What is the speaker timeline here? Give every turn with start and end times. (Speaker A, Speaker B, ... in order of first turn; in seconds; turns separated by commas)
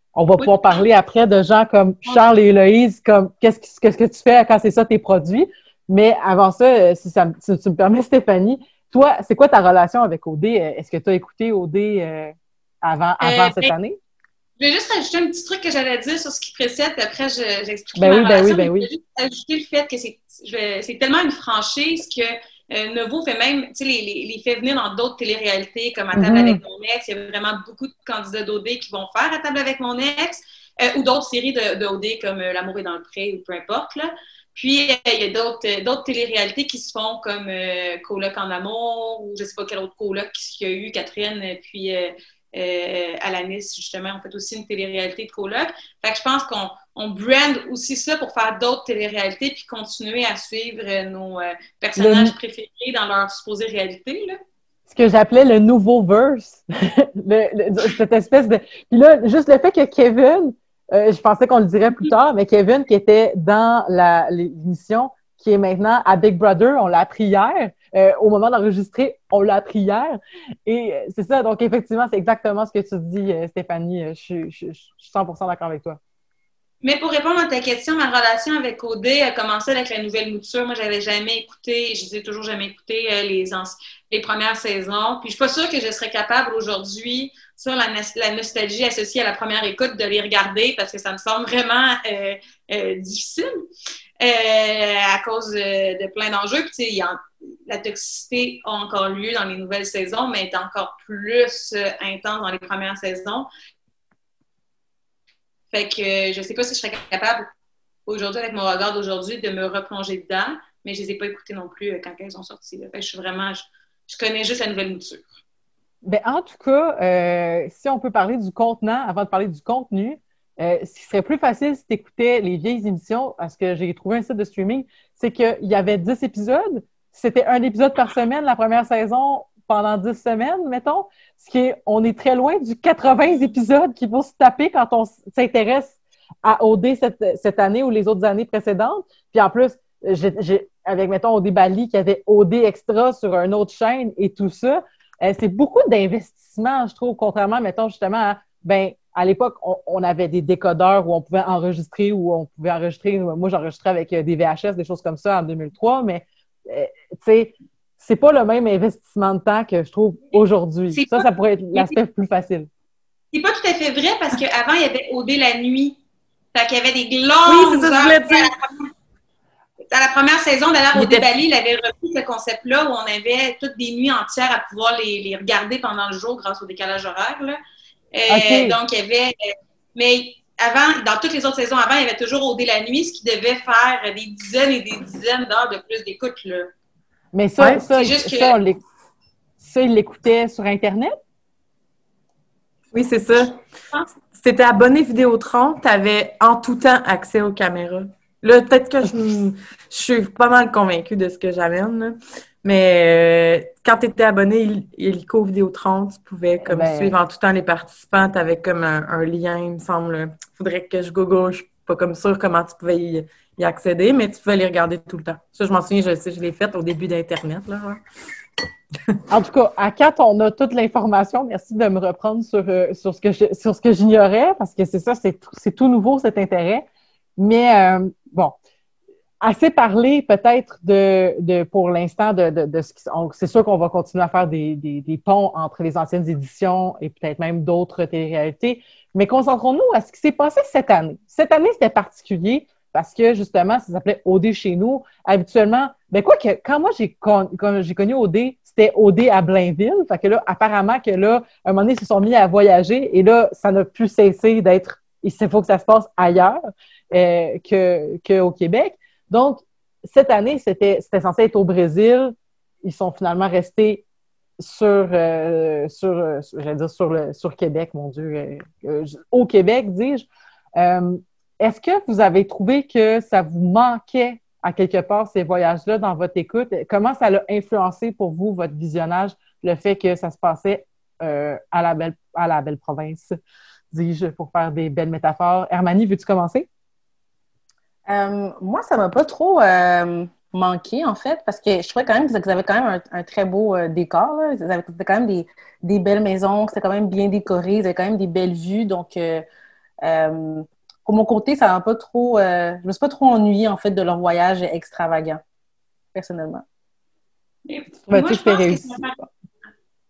Speaker A: 0.1-13.9, Speaker B: 0.4-0.8, Speaker B: 13.2-13.7, Speaker B: 14.6-54.4, Speaker A: 17.9-18.9, Speaker A: 26.1-26.6, Speaker A: 52.0-52.3, Speaker A: 54.9-76.0, Speaker B: 76.8-93.5, Speaker B: 94.2-103.5, Speaker B: 105.7-107.4, Speaker B: 108.1-115.3, Speaker A: 116.0-162.7, Speaker B: 160.9-161.9, Speaker B: 163.3-166.0, Speaker B: 166.5-168.9, Speaker C: 167.4-168.5, Speaker B: 169.9-177.6, Speaker C: 170.9-171.2, Speaker B: 178.1-179.3, Speaker A: 178.3-178.8, Speaker B: 179.9-186.7, Speaker A: 187.3-188.8, Speaker B: 187.9-188.6, Speaker A: 189.6-191.2, Speaker C: 192.9-193.5, Speaker C: 194.2-218.0, Speaker A: 206.7-207.1, Speaker A: 219.3-226.8, Speaker A: 227.4-228.5, Speaker A: 229.4-256.6, Speaker A: 257.1-264.0, Speaker A: 264.6-283.3, Speaker A: 283.9-286.7, Speaker D: 288.1-299.4, Speaker D: 300.0-305.4, Speaker D: 306.1-306.6, Speaker B: 307.7-309.2, Speaker A: 308.1-309.2